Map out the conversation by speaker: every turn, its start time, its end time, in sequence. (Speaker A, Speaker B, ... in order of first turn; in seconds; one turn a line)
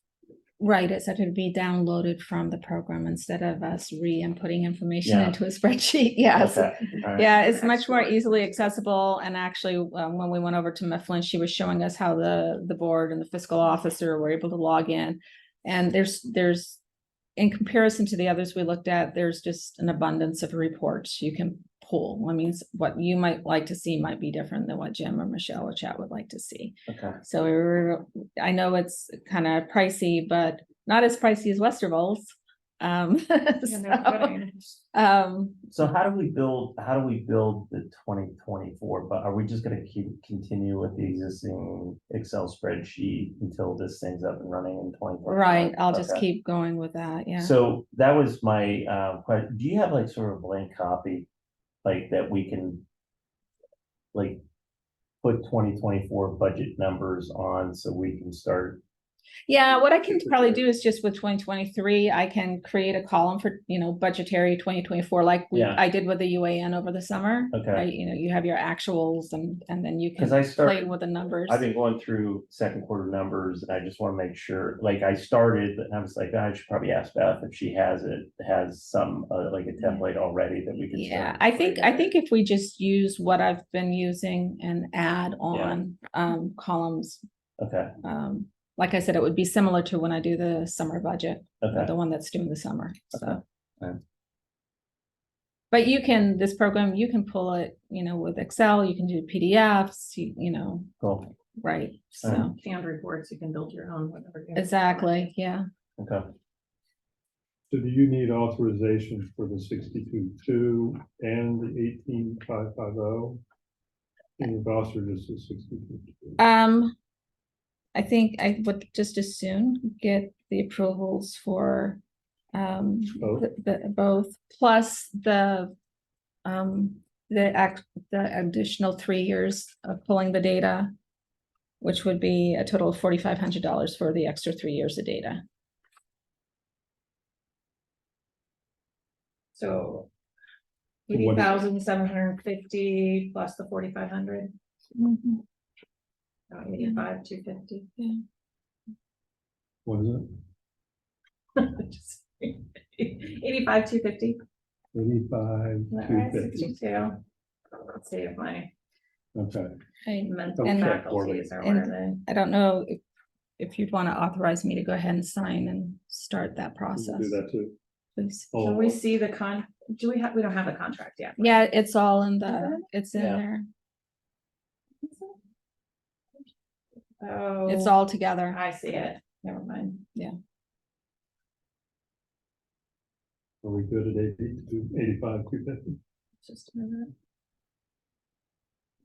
Speaker A: 0.6-16.8
Speaker B: 5.0-5.4
Speaker B: 6.3-7.3
Speaker C: 7.3-8.7
Speaker A: 17.4-34.4
Speaker B: 26.9-27.2
Speaker C: 33.7-34.8
Speaker A: 34.9-35.6
Speaker B: 35.7-46.2
Speaker A: 45.3-47.5
Speaker B: 47.4-51.3
Speaker B: 51.9-52.8
Speaker B: 54.1-54.4
Speaker B: 55.2-58.8
Speaker A: 59.5-71.7
Speaker B: 65.5-65.8
Speaker B: 67.5-67.9
Speaker B: 70.2-70.9
Speaker B: 71.5-82.1
Speaker A: 79.8-80.0
Speaker A: 80.9-87.2
Speaker B: 85.5-85.8
Speaker B: 87.6-87.9
Speaker A: 88.0-93.4
Speaker B: 91.6-91.9
Speaker B: 93.1-94.0
Speaker A: 95.7-100.9
Speaker B: 101.0-101.3
Speaker A: 101.6-102.5
Speaker B: 102.2-102.5
Speaker C: 102.5-105.2
Speaker A: 104.5-105.6
Speaker B: 106.0-106.3
Speaker D: 107.7-113.4
Speaker D: 114.4-116.4
Speaker A: 116.4-117.0
Speaker A: 118.0-122.0
Speaker A: 122.5-125.7
Speaker D: 123.2-123.5
Speaker A: 126.5-130.9
Speaker A: 131.8-135.4
Speaker C: 139.6-140.1
Speaker C: 141.1-144.5
Speaker D: 141.1-141.6
Speaker A: 145.0-145.4
Speaker C: 146.5-147.9
Speaker A: 146.8-147.1
Speaker D: 149.8-150.4
Speaker C: 151.6-154.4
Speaker D: 154.9-156.7
Speaker C: 155.9-157.2
Speaker C: 157.7-158.7
Speaker D: 159.3-159.7
Speaker A: 160.1-163.0
Speaker C: 160.2-162.2
Speaker D: 160.6-161.5
Speaker A: 163.6-167.4
Speaker D: 166.9-167.8
Speaker A: 168.2-168.5
Speaker D: 168.5-169.0
Speaker C: 168.6-171.6
Speaker A: 171.4-173.7
Speaker C: 172.5-172.8
Speaker B: 173.2-173.4
Speaker C: 175.0-175.4
Speaker C: 177.2-180.0
Speaker A: 177.7-178.6
Speaker D: 183.6-186.0
Speaker C: 186.4-187.1